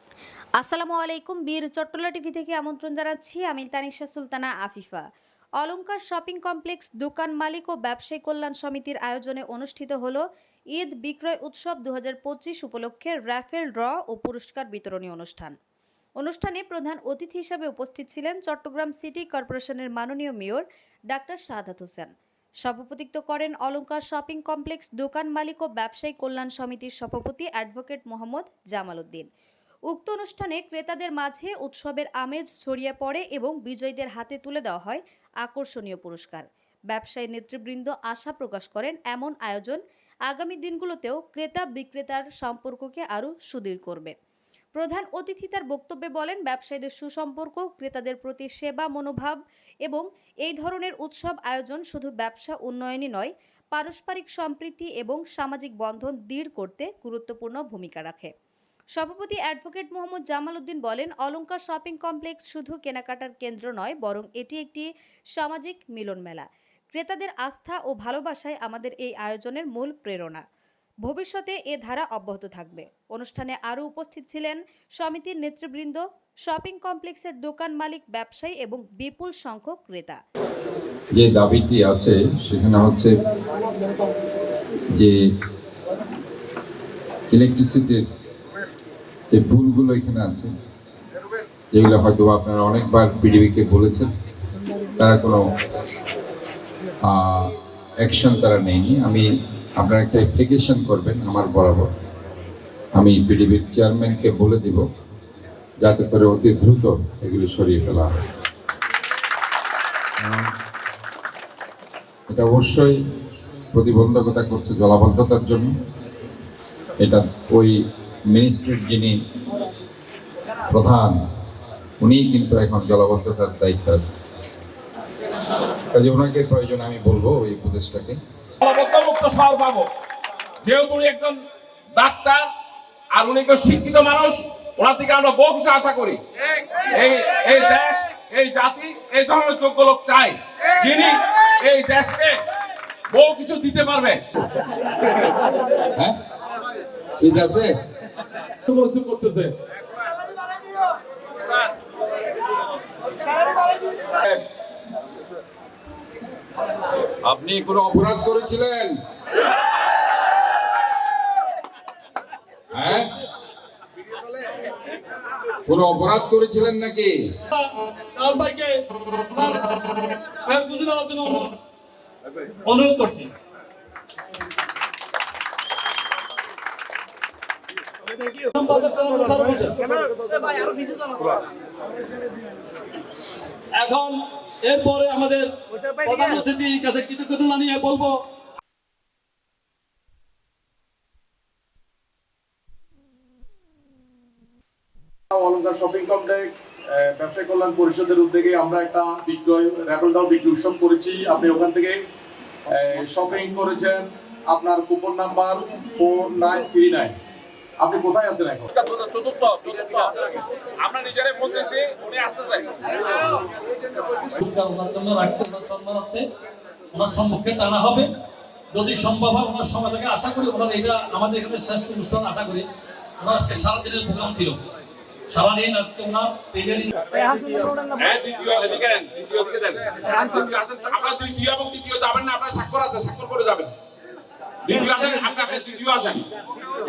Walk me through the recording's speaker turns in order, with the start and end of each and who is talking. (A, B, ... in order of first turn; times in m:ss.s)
0:00.6-0:05.0 A
0:05.6-0:10.2 A
0:10.7-0:15.6 A
0:16.2-0:22.1 A
0:22.6-0:29.3 A
0:29.9-0:44.1 A
0:44.8-0:58.3 A
0:59.0-1:10.4 A
1:11.0-1:20.2 A
1:21.2-1:23.1 B
1:27.3-1:28.1 B
1:29.3-1:30.5 B
1:31.7-1:34.1 B
1:35.0-1:35.4 B
1:37.0-1:39.3 B
1:39.8-1:41.9 B
1:43.0-1:44.8 B
1:45.8-1:48.2 B
1:50.2-1:50.5 B
1:52.3-1:53.0 B
1:53.7-1:55.7 B
1:57.0-1:57.8 B
1:58.3-1:59.3 B
2:00.7-2:01.2 B
2:02.0-2:04.1 B
2:05.9-2:08.2 B
2:08.6-2:09.9 C
2:10.6-2:11.4 C
2:12.0-2:12.5 C
2:13.1-2:16.2 C
2:16.9-2:22.4 C
2:23.1-2:24.2 C
2:27.2-2:27.7 B
2:28.7-2:29.5 D
2:37.3-2:39.0 B
2:42.7-2:43.1 B
2:45.7-2:47.2 B
2:47.5-2:48.7 E
2:49.3-2:51.6 E
2:52.6-2:53.3 E
2:58.3-3:01.4 E
3:03.7-3:08.1 E
3:15.3-3:22.0 D
3:22.7-3:27.2 D
3:27.8-3:28.7 D
3:28.8-3:32.9 C
3:34.4-3:36.2 E
3:36.9-3:38.1 E
3:38.7-3:42.7 E
3:43.2-3:44.6 E
3:45.3-3:47.9 E
3:48.0-3:53.7 C
3:54.7-3:56.3 C